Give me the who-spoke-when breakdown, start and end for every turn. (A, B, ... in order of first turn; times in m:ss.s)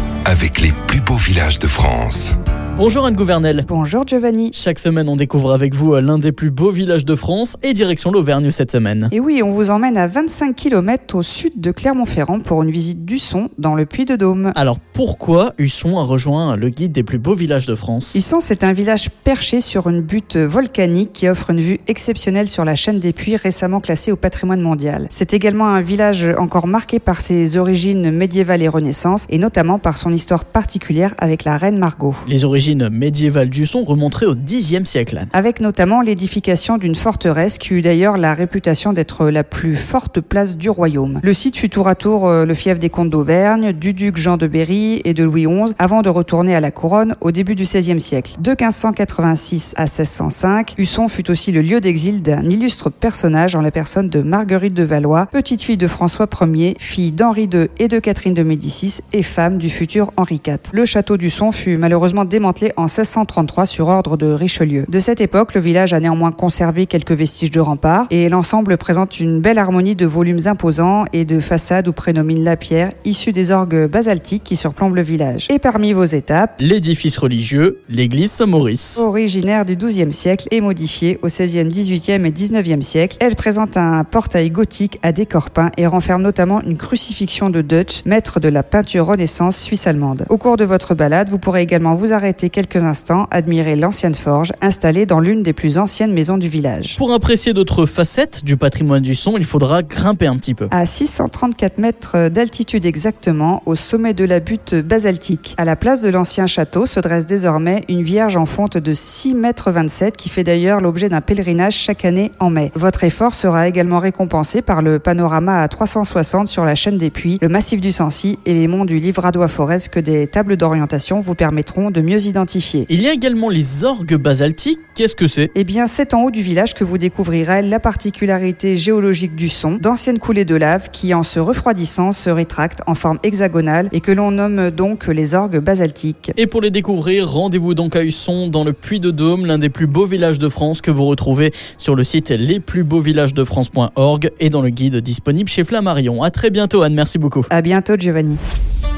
0:00.3-0:02.3 A
0:02.8-0:03.7 B
0:03.7-0:04.6 C
0:04.5-0:09.1 B
0:09.1-0:14.6 C
0:14.6-0:18.2 B
0:18.1-0:32.2 C
0:32.3-0:35.3 B
0:35.3-1:16.6 C
1:16.6-1:19.0 B
1:19.0-1:37.0 C
1:37.0-1:40.7 B
1:40.7-2:02.9 C
2:02.9-2:05.5 B
2:05.5-2:16.4 C
2:16.4-2:27.5 B
2:27.5-2:28.4 C